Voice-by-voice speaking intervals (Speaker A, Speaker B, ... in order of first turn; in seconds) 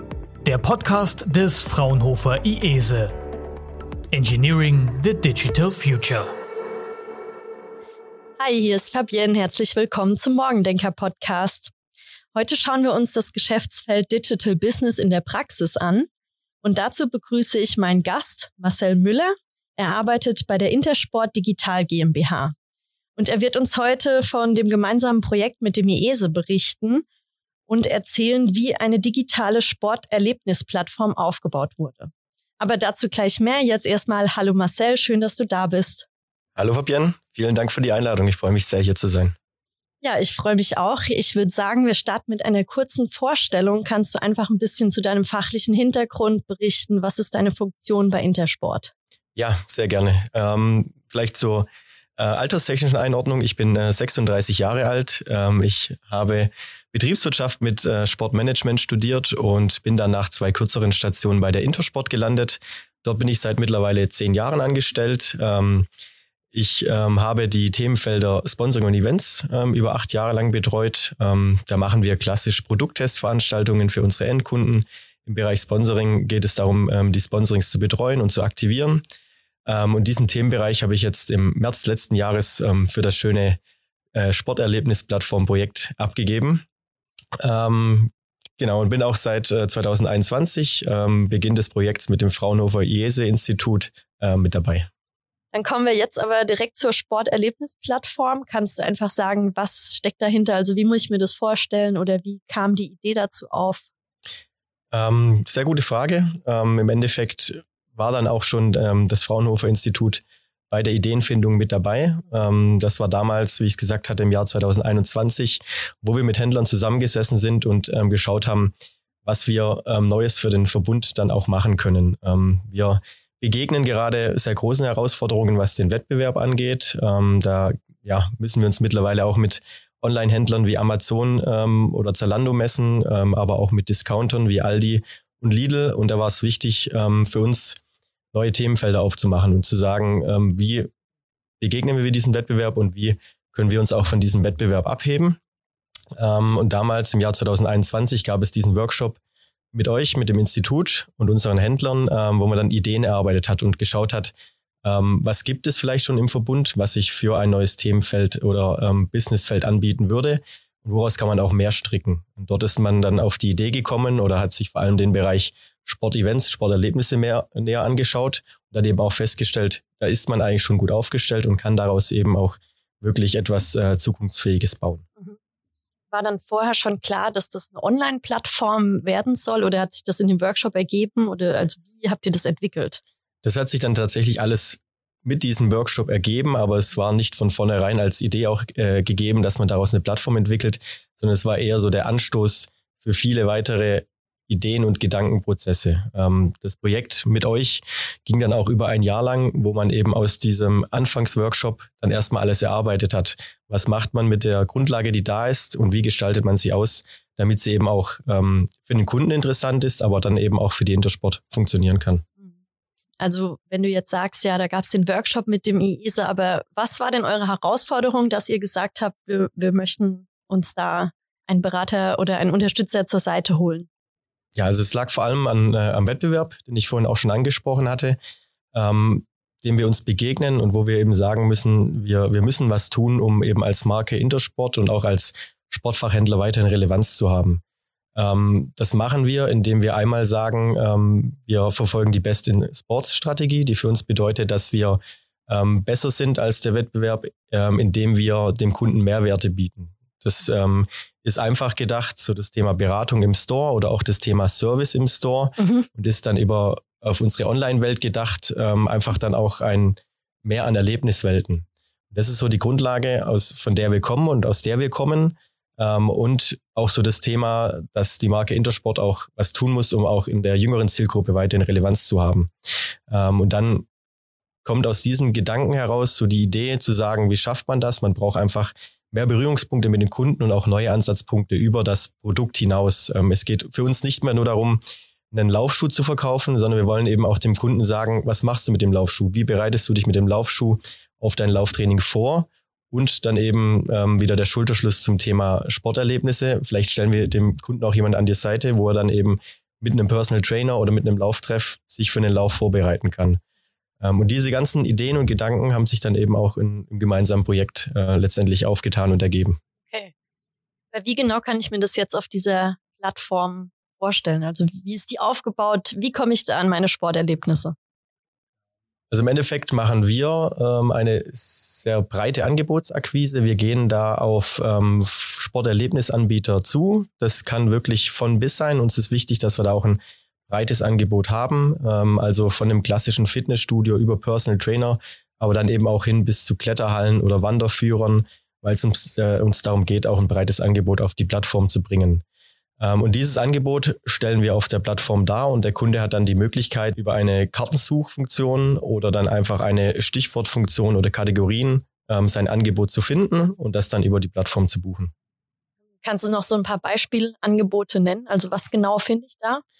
Speaker A: 0.4-3.1, 4.1-6.3
Speaker B: 8.4-11.7, 12.3-16.1, 16.6-22.5, 23.1-27.1, 27.7-36.1, 40.0-48.9, 95.5-103.9, 176.1-183.0, 213.2-223.9, 255.6-255.9, 309.9-310.1, 310.9-317.7, 356.0-359.6
Speaker C: 36.5-39.3, 49.4-65.9, 66.5-79.0, 79.7-83.6, 84.1-86.6, 87.4-94.9, 104.9-118.7, 119.2-137.8, 138.3-140.9, 141.6-145.4, 146.2-149.2, 149.7-175.1, 183.4-212.2, 224.5-228.2, 228.7-237.6, 238.2-272.5, 273.1-273.9, 274.6-284.8, 285.3-303.4, 304.0-309.6, 319.1-342.2, 342.8-355.1